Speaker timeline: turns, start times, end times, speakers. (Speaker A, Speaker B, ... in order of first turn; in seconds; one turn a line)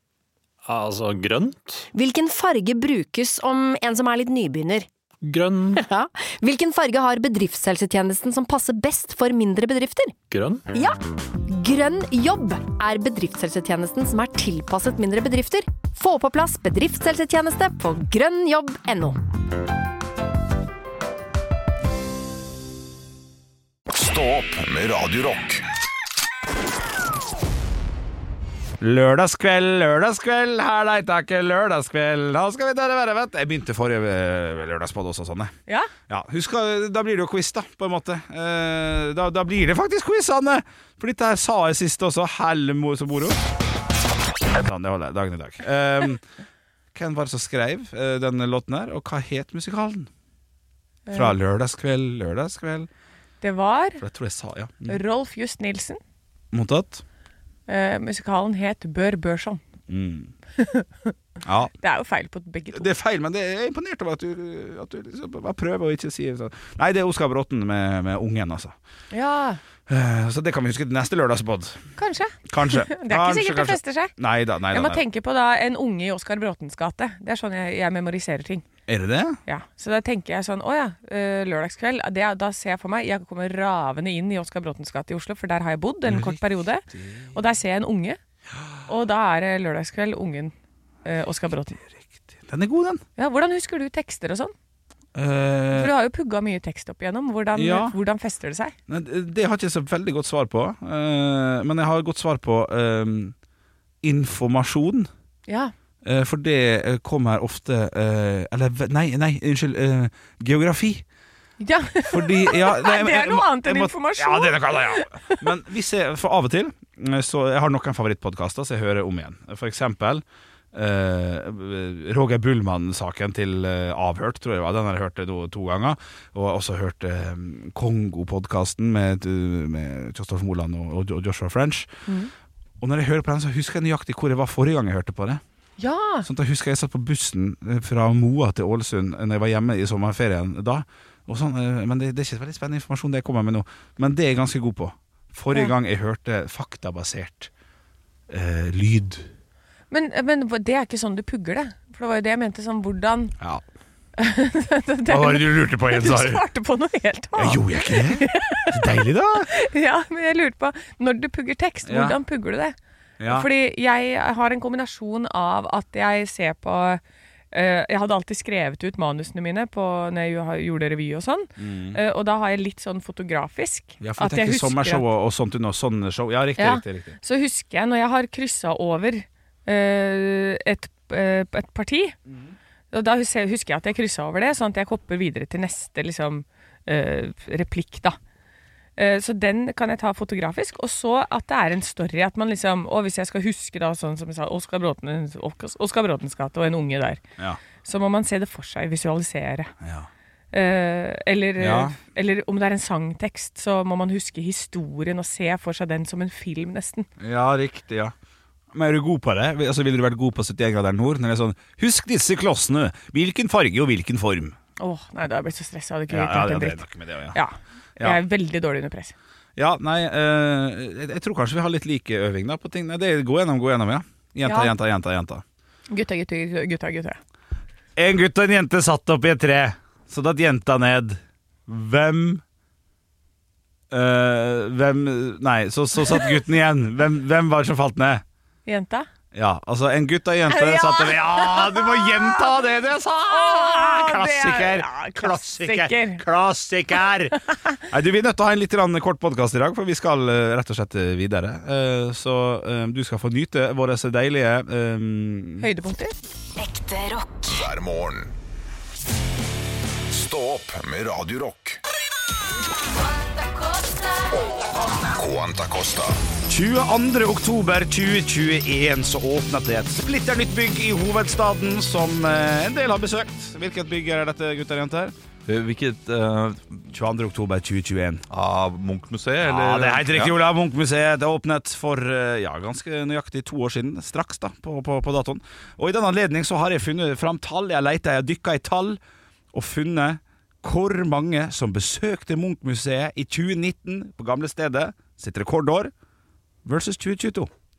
Speaker A: 0.6-1.9
Speaker B: 1.9-4.9
Speaker A: 5.2-5.8
Speaker B: 5.7-10.1
Speaker A: 10.3-10.7
Speaker B: 10.7-19.2
Speaker C: 23.9-25.6
Speaker D: 28.8-35.5
Speaker D: 36.1-43.4
Speaker D: 44.5-46.2
Speaker D: 46.9-50.1
Speaker E: 51.1-51.3
Speaker D: 51.1-52.9
Speaker E: 53.4-54.0
Speaker D: 54.0-55.0
Speaker E: 54.9-56.0
Speaker D: 56.5-57.0
Speaker E: 57.7-59.6
Speaker D: 59.9-60.3
Speaker E: 60.5-61.1
Speaker D: 61.4-61.7
Speaker E: 61.8-62.9
Speaker D: 62.7-68.7
Speaker E: 69.1-69.6
Speaker D: 69.9-71.8
Speaker E: 72.0-74.1
Speaker D: 72.5-75.0
Speaker E: 74.7-78.6
Speaker D: 78.9-79.4
Speaker E: 79.5-88.2
Speaker D: 86.0-86.4
Speaker E: 88.9-90.5
Speaker E: 91.0-91.8
Speaker D: 92.4-93.0
Speaker E: 93.2-94.5
Speaker D: 95.1-95.9
Speaker E: 95.7-98.7
Speaker D: 97.5-98.0
Speaker D: 98.9-103.3
Speaker D: 104.0-105.1
Speaker E: 105.5-105.7
Speaker D: 106.0-111.0
Speaker E: 111.6-115.5
Speaker D: 112.1-131.9
Speaker D: 132.8-135.4
Speaker E: 135.8-136.3
Speaker D: 136.2-147.5
Speaker D: 148.3-149.3
Speaker E: 149.9-153.3
Speaker E: 154.2-158.8
Speaker D: 155.1-156.4
Speaker D: 157.3-159.5
Speaker E: 159.5-162.8
Speaker D: 161.8-162.2
Speaker D: 163.2-163.5
Speaker E: 163.3-175.1
Speaker D: 171.6-172.0
Speaker D: 174.0-177.2
Speaker E: 176.6-182.2
Speaker E: 182.9-188.2
Speaker E: 189.0-197.2
Speaker E: 197.8-199.7
Speaker D: 199.8-200.1
Speaker E: 200.5-207.1
Speaker D: 201.6-201.9
Speaker D: 207.2-208.1
Speaker D: 208.7-214.6
Speaker E: 214.8-219.1
Speaker D: 216.1-217.4
Speaker D: 219.6-225.4
Speaker E: 224.4-224.7
Speaker E: 225.9-227.2
Speaker D: 228.0-232.4
Speaker D: 233.9-238.2
Speaker E: 238.7-239.1
Speaker D: 239.3-255.7
Speaker E: 240.5-242.5
Speaker E: 243.3-246.2
Speaker E: 255.6-256.1
Speaker C: 257.4-258.3
Speaker C: 260.1-261.8
Speaker C: 265.0-266.2
Speaker D: 266.5-275.1
Speaker F: 275.5-276.8
Speaker D: 276.9-278.2
Speaker F: 278.3-280.4
Speaker D: 279.4-289.0
Speaker D: 289.5-295.9
Speaker D: 296.6-297.5